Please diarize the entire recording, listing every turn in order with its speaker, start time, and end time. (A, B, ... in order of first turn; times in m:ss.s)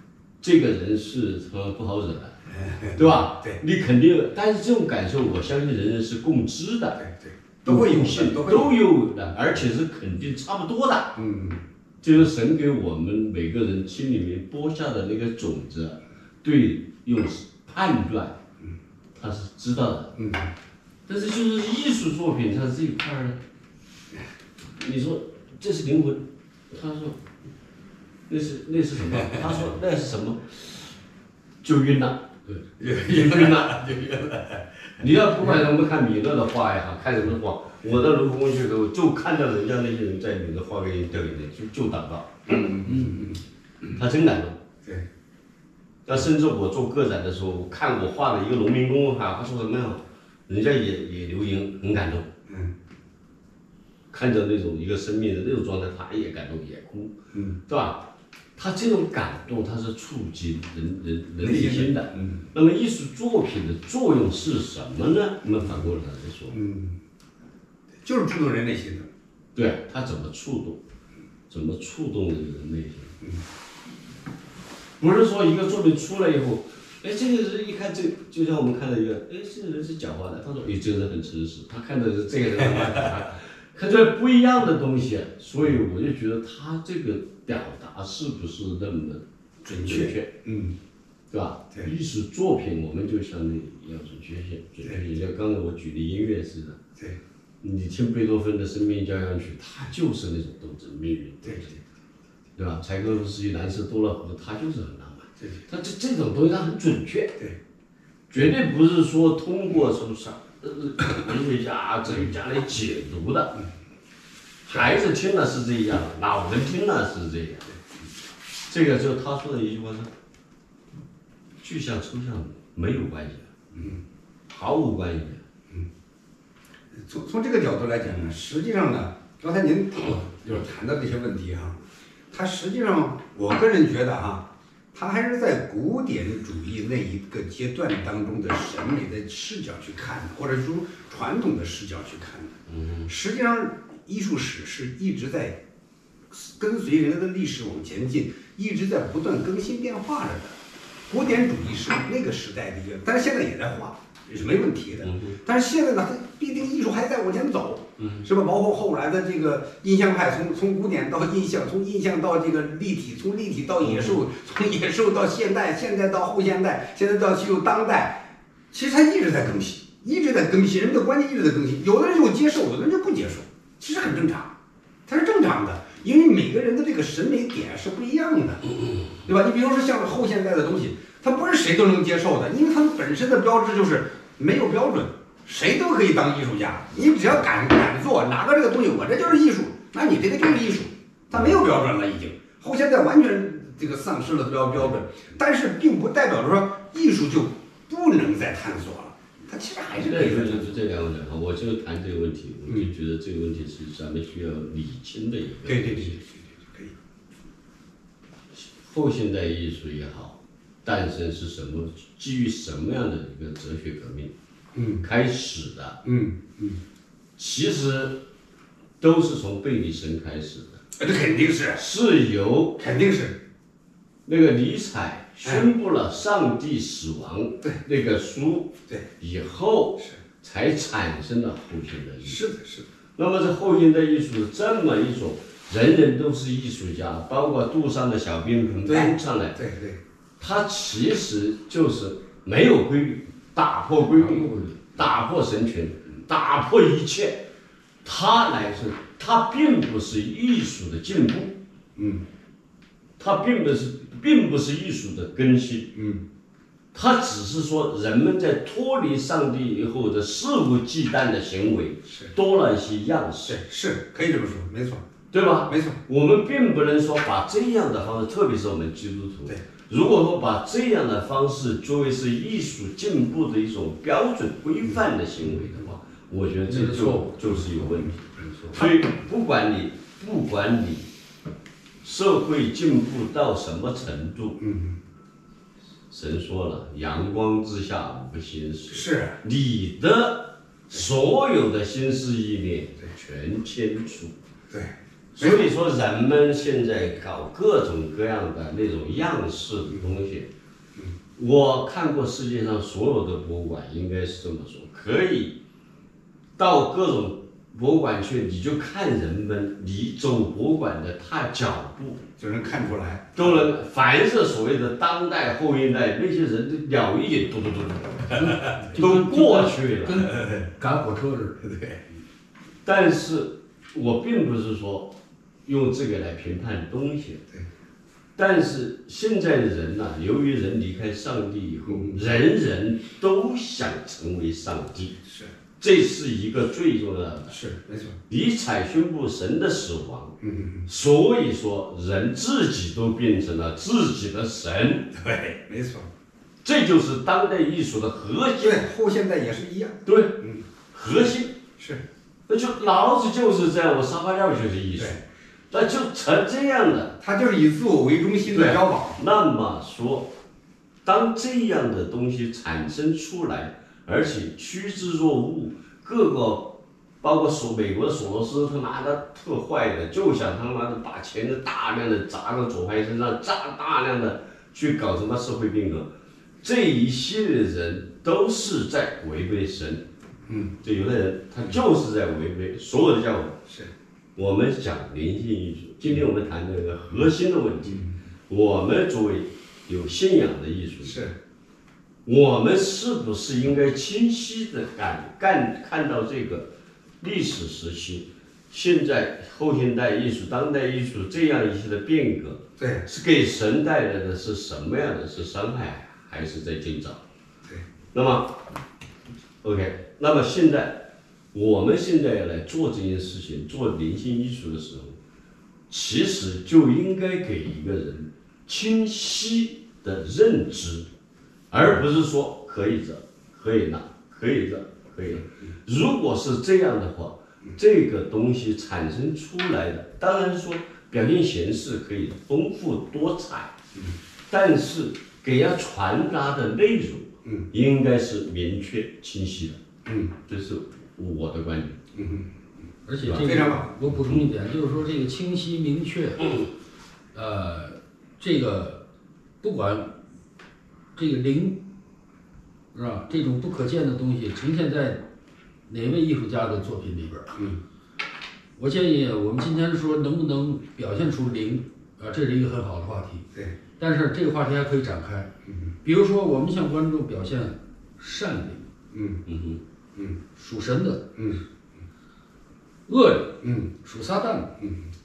0:00.4-0:02.4 A
0:02.5-0:03.6 B
0:02.9-0:07.0 A
0:07.0-0:08.8 B
0:07.6-0:11.2 A
0:11.2-0:11.6 B
0:12.0-0:18.4 A
0:19.1-0:20.1 A
0:20.2-0:20.5 B
0:21.0-0:23.4 A
0:24.8-0:27.2 A
0:28.3-0:30.9 A
0:31.6-0:32.2 A
0:32.8-0:35.1 B
0:32.9-0:34.3 A
0:34.8-0:43.1 A
0:42.5-0:44.0 B
0:42.9-0:43.2 C
0:43.8-0:44.6 A
0:46.0-0:52.3 A
0:54.1-0:57.1 A
0:57.3-0:57.6 B
0:57.7-1:06.6 A
1:01.4-1:02.4 B
1:06.5-1:07.0 B
1:08.0-1:09.1 B
1:09.5-1:10.8 A
1:11.5-1:13.1 A
1:15.0-1:29.2 A
1:22.5-1:23.3 B
1:29.6-1:30.7 B
1:29.7-1:30.3 A
1:31.3-1:36.8 A
1:37.6-1:41.8 A
1:41.4-1:41.8 B
1:42.6-1:47.4 A
1:48.3-1:53.6 A
1:54.6-1:57.7 A
1:54.7-1:55.0 B
1:58.7-2:00.1 A
2:01.6-2:03.5 A
2:03.7-2:04.0 B
2:04.5-2:05.4 A
2:06.9-2:25.6 B
2:22.7-2:23.1 A
2:26.3-2:54.5 B
2:35.0-2:35.4 A
2:38.0-2:38.3 A
2:43.8-2:44.2 A
2:55.0-2:58.6 B
2:59.2-3:20.7 B
3:20.0-3:26.2 A
3:25.6-3:26.9 B
3:28.5-3:34.3 A
3:34.7-3:35.0 B
3:35.0-3:36.0 A
3:36.0-3:36.8 B
3:37.4-3:38.2 A
3:39.0-3:40.8 A
3:41.0-3:41.8 B
3:41.7-3:42.8 A
3:42.8-3:43.4 B
3:44.2-3:52.4 A
3:45.4-3:45.7 B
3:52.2-3:52.8 B
3:53.2-3:59.6 A
3:58.8-4:00.0 B
4:00.4-4:07.5 A
4:04.2-4:04.8 C
4:08.0-4:11.6 A
4:12.0-4:12.2 B
4:13.2-4:16.0 A
4:15.9-4:16.2 B
4:16.9-4:23.6 A
4:23.5-4:25.0 B
4:25.3-4:38.2 A
4:25.7-4:26.0 B
4:36.7-4:38.8 C
4:38.7-4:41.1 A
4:42.0-4:44.6 A
4:44.6-4:45.0 B
4:46.1-4:54.3 A
4:48.9-4:49.4 B
4:54.7-4:55.7 B
4:55.3-5:00.5 A
5:01.4-5:05.6 A
5:06.6-5:12.2 A
5:12.4-5:13.6 B
5:13.3-5:20.3 A
5:18.3-5:21.6 C
5:20.3-5:20.7 B
5:21.6-5:22.0 B
5:22.8-5:27.4 A
5:28.4-5:35.2 A
5:31.9-5:32.2 B
5:35.2-5:35.5 B
5:35.8-5:37.6 A
5:37.5-5:38.2 B
5:38.3-5:45.1 A
5:40.4-5:40.8 B
5:45.1-5:46.1 B
5:46.6-5:48.8 A
5:48.6-5:50.6 B
5:50.0-5:51.6 A
5:51.8-5:52.0 B
5:52.5-5:57.2 A
5:57.2-5:59.2 B
5:58.4-6:00.3 A
6:01.0-6:16.1 A
6:16.6-6:20.0 A
6:20.5-6:20.7 B
6:20.8-6:23.6 A
6:24.4-6:31.3 A
6:31.0-6:31.3 B
6:32.2-6:36.7 A
6:37.2-6:47.2 A
6:42.8-6:43.0 B
6:48.1-6:48.6 A
6:49.6-6:55.2 A
6:55.9-7:01.1 A
7:01.7-7:13.7 A
7:14.5-7:19.8 A
7:20.0-7:20.3 B
7:20.5-7:22.0 A
7:22.1-7:22.5 B
7:23.0-7:26.6 C
7:23.2-7:23.6 A
7:23.4-7:23.8 B
7:27.3-7:29.0 C
7:29.6-7:30.2 C
7:31.1-7:31.8 C
7:32.9-7:35.2 C
7:35.9-7:37.6 C
7:37.5-7:37.8 B
7:38.8-7:45.5 C
7:46.0-7:48.9 C
7:49.1-7:49.4 B
7:49.4-7:49.8 A
7:50.6-7:51.5 C
7:53.1-7:54.8 C
7:53.6-7:53.9 B